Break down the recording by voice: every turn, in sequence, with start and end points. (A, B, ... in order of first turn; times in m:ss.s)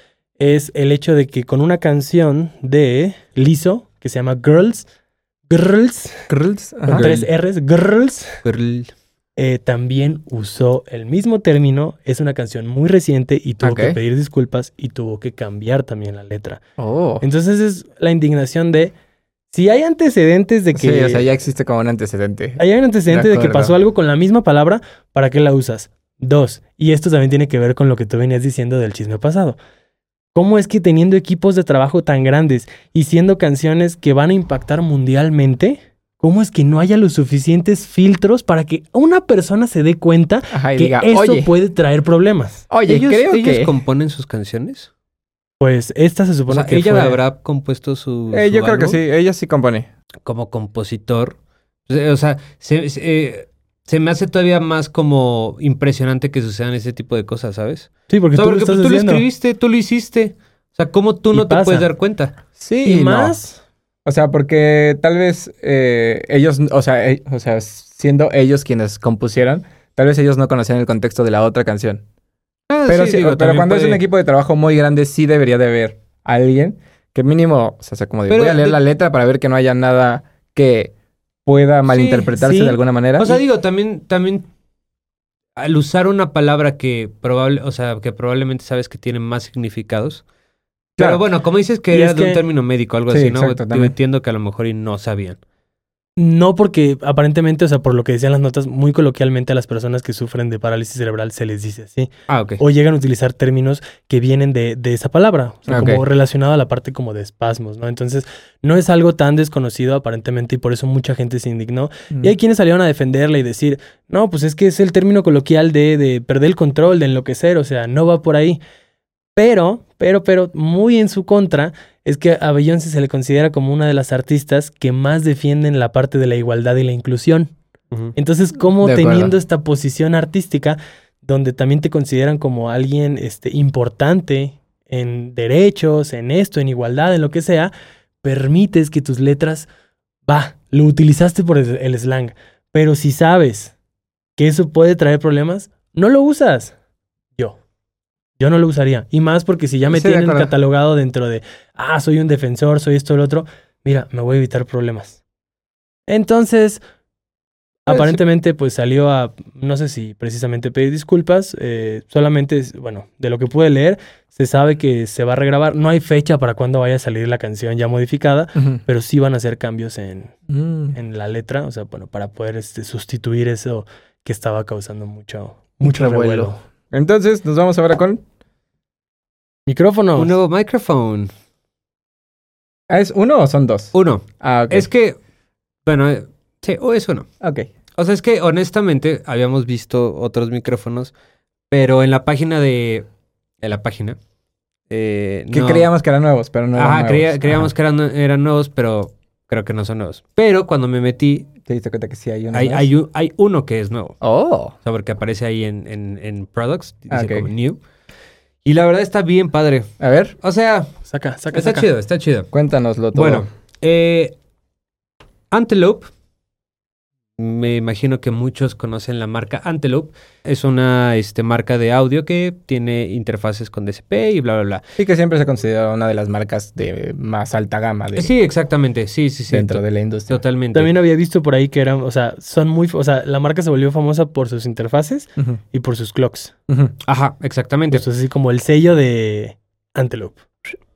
0:00.4-0:04.9 A
0:05.5-0:06.3 A
0:06.3-0:07.3 B
0:06.9-0:08.4 A
0:08.4-0:08.9 C
0:09.4-0:16.6 A
0:13.6-0:14.0 B
0:16.8-0:17.2 B
0:17.2-0:18.9 A
0:19.5-0:21.2 A
0:20.7-0:23.8 B
0:22.6-0:29.6 A
0:30.4-0:42.7 A
0:40.5-0:41.5 B
0:42.7-0:43.7 B
0:42.9-0:44.9 C
0:45.6-0:47.2 A
0:46.5-0:49.0 C
0:48.3-0:49.9 B
0:50.3-0:51.4 C
0:51.9-1:02.4 C
0:58.1-0:59.2 A
1:01.3-1:01.9 A
1:02.6-1:03.3 B
1:02.8-1:03.6 A
1:04.1-1:12.0 B
1:12.7-1:14.0 C
1:12.9-1:20.9 B
1:18.3-1:18.8 C
1:21.5-1:23.4 B
1:21.9-1:22.4 C
1:22.4-1:22.8 A
1:23.2-1:24.5 C
1:25.6-1:30.2 C
1:31.0-1:31.2 B
1:31.0-1:35.4 C
1:31.9-1:32.4 A
1:33.1-1:33.9 B
1:36.2-1:58.6 A
1:42.3-1:42.6 C
1:45.7-1:46.0 B
1:59.4-2:07.5 A
2:08.2-2:17.7 A
2:08.8-2:09.3 B
2:18.2-2:19.7 A
2:20.3-2:23.7 A
2:24.4-2:26.7 A
2:28.4-2:35.2 A
2:29.9-2:30.5 B
2:36.1-2:36.8 A
2:37.9-2:50.4 A
2:37.9-2:38.2 B
2:48.6-2:48.8 B
2:50.5-2:51.0 B
2:50.9-2:56.6 A
2:55.8-2:58.2 B
2:59.7-3:00.4 A
3:00.2-3:01.3 C
3:02.9-3:04.9 B
3:03.9-3:05.2 C
3:05.9-3:07.3 C
3:07.4-3:07.7 B
3:08.0-3:11.1 C
3:11.7-3:13.1 C
3:13.6-3:14.2 C
3:14.9-3:15.9 C
3:15.5-3:17.7 B
3:16.8-3:21.5 C
3:21.6-3:22.9 B
3:22.5-3:24.2 C
3:24.2-3:24.8 B
3:24.8-3:27.8 C
3:27.1-3:27.5 B
3:28.6-3:30.9 C
3:30.0-3:30.4 B
3:31.1-3:31.9 A
3:31.5-3:32.5 C
3:32.5-3:33.5 B
3:33.1-3:34.4 C
3:35.5-3:36.1 C
3:37.4-3:44.8 C
3:45.0-3:48.3 B
3:48.2-3:50.9 C
3:49.5-3:50.4 B
3:50.7-3:56.5 A
3:57.0-3:58.0 C
3:57.9-4:00.7 A